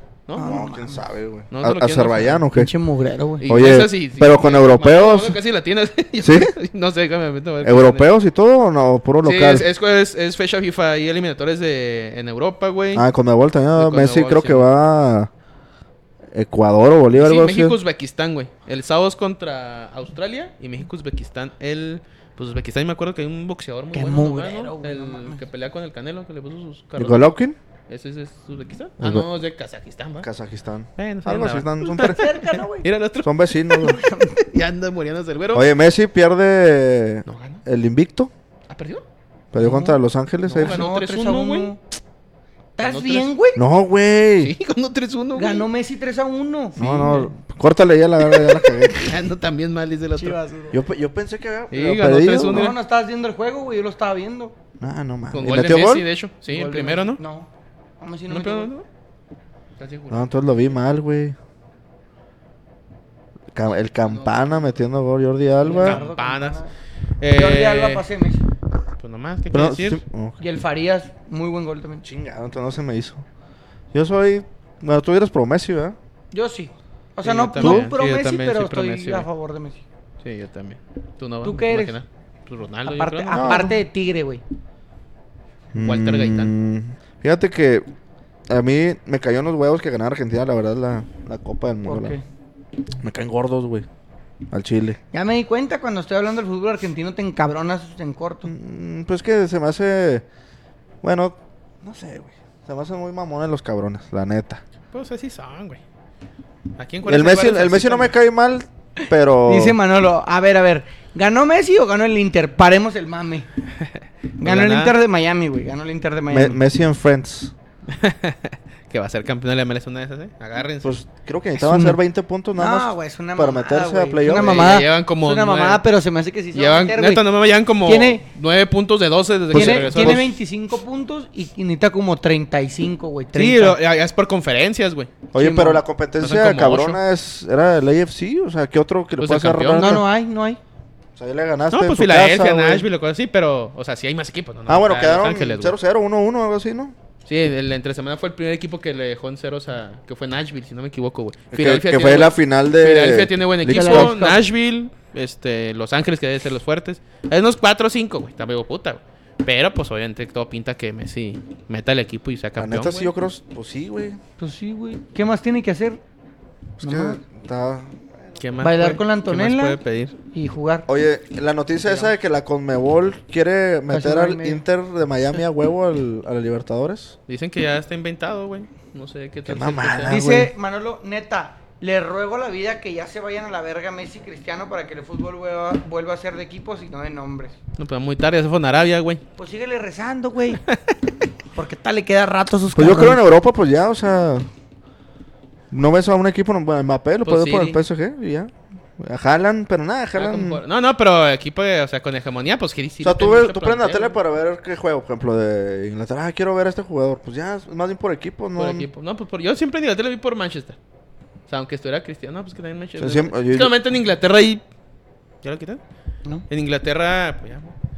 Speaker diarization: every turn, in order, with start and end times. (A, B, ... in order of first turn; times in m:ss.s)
0:00.3-0:00.6 A
0:00.4-0:01.0 B
0:00.4-0:02.7 C
0:01.5-0:02.4 A
0:02.5-0:03.5 B
0:03.4-0:08.1 A
0:03.5-0:05.4 C
0:06.2-0:06.5 C
0:07.6-0:09.7 C
0:09.2-0:13.1 A
0:12.9-0:15.3 C
0:13.8-0:14.7 A
0:16.3-0:17.8 C
0:17.1-0:27.3 A
0:23.9-0:25.4 B
0:27.0-0:27.6 C
0:27.9-0:30.3 A
0:29.0-0:29.3 C
0:30.2-0:32.2 C
0:31.0-0:35.7 A
0:32.0-0:32.9 B
0:33.2-0:34.0 C
0:33.8-0:34.4 B
0:35.5-0:38.3 C
0:37.3-0:37.6 A
0:38.7-0:39.0 A
0:39.5-0:40.8 C
0:39.6-0:40.0 B
0:40.5-0:41.8 A
0:40.6-0:41.8 B
0:42.8-0:43.6 B
0:42.8-0:43.3 A
0:43.6-0:44.6 C
0:44.4-0:45.7 A
0:45.4-0:47.3 B
0:46.8-0:49.0 C
0:46.8-0:47.3 A
0:48.4-0:50.4 A
0:50.2-0:50.8 B
0:50.7-0:52.7 C
0:51.7-0:52.8 A
0:52.4-0:54.6 B
0:54.8-0:56.1 C
0:55.3-0:57.2 A
0:56.5-0:57.5 B
0:58.0-0:58.7 B
0:58.3-0:58.8 A
0:59.8-1:00.4 A
1:00.1-1:01.4 C
1:03.5-1:06.0 C
1:04.0-1:04.6 A
1:05.6-1:06.7 B
1:05.7-1:06.6 A
1:07.2-1:08.1 A
1:07.3-1:08.4 B
1:09.0-1:10.0 A
1:09.5-1:10.4 C
1:10.4-1:12.0 B
1:12.0-1:13.2 C
1:13.9-1:16.0 C
1:16.3-1:19.8 B
1:17.2-1:19.3 A
1:17.6-1:17.9 C
1:20.2-1:23.7 A
1:21.4-1:22.0 B
1:22.9-1:24.4 B
1:23.3-1:23.8 C
1:25.7-1:27.8 C
1:25.8-1:26.5 A
1:28.5-1:32.1 C
1:31.8-1:32.2 B
1:33.0-1:33.9 C
1:34.5-1:35.0 C
1:35.1-1:38.5 B
1:38.5-1:40.2 C
1:41.0-1:44.6 C
1:44.9-1:45.8 A
1:46.8-1:48.1 A
1:47.0-1:49.8 C
1:49.5-1:53.5 B
1:53.8-1:55.0 A
1:54.4-1:56.6 B
1:56.3-1:57.5 C
1:57.9-2:01.0 A
2:00.8-2:04.8 C
2:01.6-2:02.0 B
2:02.6-2:07.2 B
2:04.3-2:05.8 A
2:06.5-2:10.3 A
2:07.8-2:08.3 B
2:09.5-2:10.3 C
2:09.5-2:13.8 B
2:13.4-2:15.1 A
2:15.3-2:15.8 B
2:15.3-2:20.0 C
2:16.2-2:17.0 A
2:19.2-2:19.9 A
2:19.8-2:20.6 B
2:21.2-2:22.9 C
2:21.7-2:25.7 A
2:24.7-2:27.0 C
2:27.3-2:43.1 A
2:31.5-2:34.2 C
2:33.7-2:34.4 B
2:42.6-2:44.2 C
2:44.4-2:46.0 B
2:46.8-2:47.2 B
2:46.8-2:48.0 C
2:48.4-2:50.2 A
2:48.6-2:49.8 B
2:50.3-2:50.9 B
2:50.9-2:57.2 C
2:53.9-2:54.6 B
2:57.3-3:00.2 A
2:59.5-3:00.5 C
3:00.1-3:07.5 B
3:07.8-3:09.2 A
3:09.4-3:10.6 B
3:11.5-3:13.3 B
3:12.7-3:14.5 C
3:15.7-3:20.6 C
3:17.2-3:17.8 A
3:20.2-3:24.2 A
3:23.0-3:28.9 C
3:28.6-3:30.8 A
3:31.5-3:34.6 A
3:33.0-3:33.7 C
3:35.4-3:35.8 A
3:36.5-3:37.8 A